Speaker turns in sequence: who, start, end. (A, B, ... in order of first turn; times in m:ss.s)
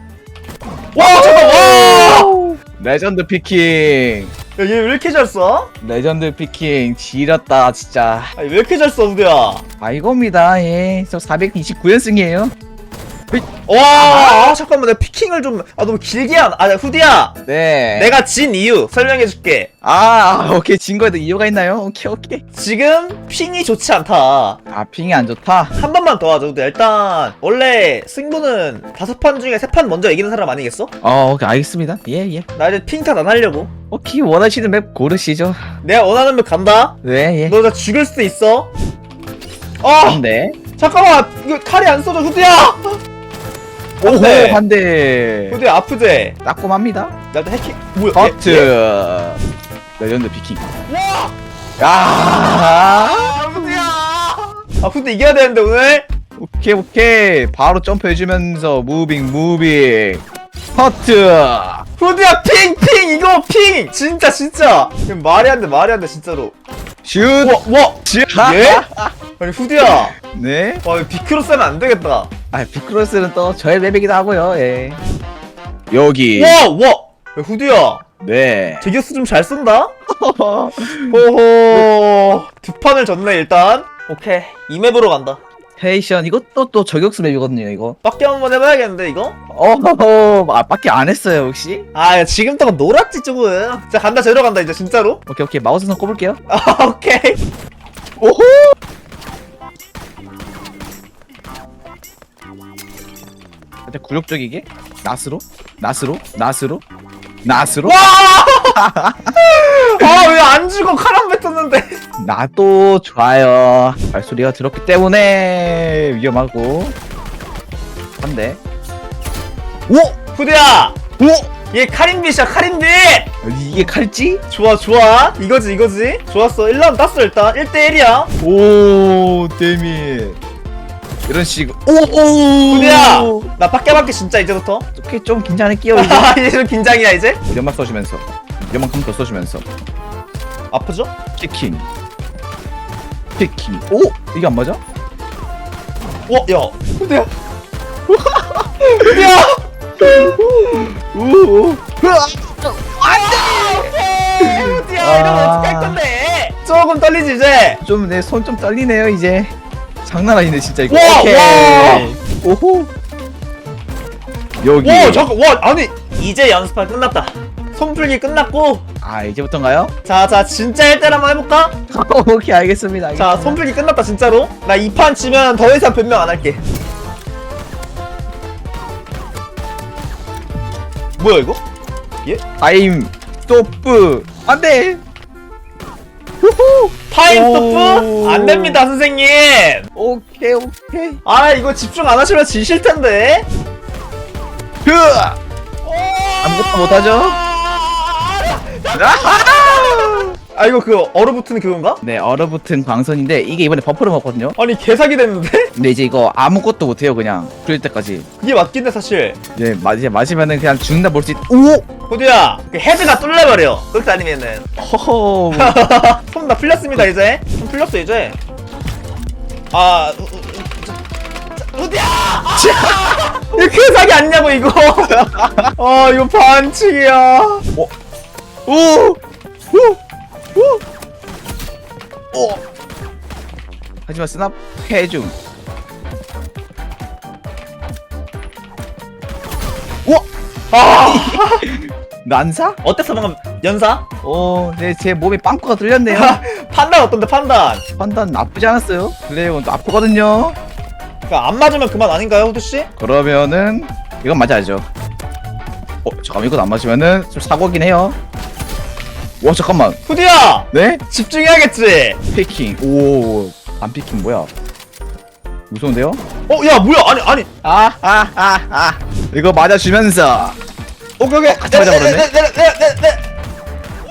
0:00.9-0:02.3 A
0:01.0-0:04.3 B
0:04.6-0:05.7 A
0:05.8-0:08.3 B
0:08.4-0:09.6 A
0:09.8-0:12.5 B
0:13.3-0:14.6 B
0:13.6-0:17.4 A
0:17.4-0:18.2 B
0:17.9-0:19.7 A
0:19.8-0:22.4 B
0:22.6-0:24.6 A
0:24.7-0:25.7 B
0:25.8-0:30.9 A
0:31.0-0:32.4 B
0:32.6-0:33.7 A
0:33.9-0:35.6 B
0:35.8-0:38.7 A
0:37.0-0:37.6 B
0:39.8-0:40.2 A
0:40.0-0:40.6 B
0:40.8-0:43.0 A
0:44.0-0:44.6 A
0:44.0-0:45.6 B
0:45.5-0:46.4 A
0:46.4-0:47.1 B
0:47.3-0:48.7 A
0:48.1-0:49.4 B
0:50.0-0:50.7 B
0:50.9-0:51.3 A
0:51.8-0:53.7 B
0:52.5-0:56.1 A
0:56.4-1:00.2 B
1:00.8-1:01.8 B
1:02.0-1:06.6 A
1:07.0-1:09.1 B
1:07.4-1:08.8 A
1:09.4-1:10.1 A
1:10.2-1:10.8 B
1:10.8-1:12.3 A
1:12.5-1:15.0 B
1:15.9-1:16.6 B
1:16.3-1:18.0 A
1:18.2-1:18.9 B
1:18.8-1:19.9 A
1:20.1-1:21.9 B
1:21.1-1:25.4 A
1:25.8-1:28.0 B
1:28.0-1:29.4 A
1:29.5-1:31.9 B
1:31.9-1:35.2 A
1:35.3-1:36.4 B
1:36.5-1:37.4 A
1:38.2-1:38.8 B
1:43.9-1:46.8 B
1:47.4-1:48.0 B
1:47.8-1:48.8 A
1:48.7-1:49.4 B
1:49.4-1:52.0 A
1:50.0-1:50.3 B
1:52.2-1:56.9 B
1:58.2-1:58.6 B
1:59.9-2:00.1 B
2:00.3-2:01.0 A
2:01.2-2:01.5 B
2:01.7-2:03.3 A
2:03.4-2:04.4 B
2:04.5-2:08.3 A
2:08.4-2:10.4 B
2:11.2-2:13.5 B
2:12.7-2:14.9 A
2:15.0-2:16.4 B
2:15.9-2:17.4 A
2:17.5-2:19.6 B
2:20.7-2:21.1 A
2:21.4-2:21.8 B
2:23.4-2:24.8 B
2:26.3-2:27.3 A
2:28.1-2:29.3 B
2:28.8-2:30.8 A
2:30.0-2:36.0 B
2:33.1-2:37.8 A
2:37.8-2:39.5 B
2:40.0-2:42.9 B
2:40.9-2:42.2 A
2:44.6-2:45.3 B
2:44.8-2:48.8 A
2:49.0-2:49.9 B
2:50.0-2:51.8 A
2:51.9-2:53.6 B
2:53.2-2:56.6 A
3:01.2-3:01.6 A
3:02.6-3:05.0 B
3:06.4-3:08.8 B
3:07.1-3:09.9 A
3:09.9-3:11.2 B
3:11.2-3:13.5 A
3:14.8-3:15.4 B
3:15.8-3:22.0 A
3:16.4-3:17.4 B
3:18.9-3:20.3 B
3:22.0-3:24.6 B
3:24.6-3:25.7 A
3:25.8-3:28.3 B
3:28.4-3:29.4 A
3:29.6-3:31.8 B
3:32.1-3:34.7 A
3:34.8-3:35.8 B
3:35.5-3:38.4 A
3:39.7-3:41.0 A
3:41.6-3:45.2 A
3:42.6-3:43.0 B
3:45.1-3:45.7 B
3:45.8-3:47.7 A
3:48.7-3:49.2 B
3:49.7-3:50.0 B
3:50.6-3:50.8 B
3:52.3-3:52.6 B
3:54.1-3:55.3 B
4:00.7-4:01.7 A
4:01.0-4:02.8 B
4:02.8-4:04.0 A
4:04.2-4:06.4 B
4:06.1-4:07.8 A
4:08.0-4:10.6 B
4:11.3-4:12.9 A
4:13.0-4:14.9 B
4:16.0-4:18.2 B
4:19.4-4:20.0 B
4:20.1-4:22.2 A
4:20.7-4:21.0 B
4:22.3-4:24.5 B
4:25.7-4:26.2 B
4:26.5-4:27.5 A
4:27.6-4:30.6 B
4:31.2-4:33.3 A
4:31.4-4:32.3 B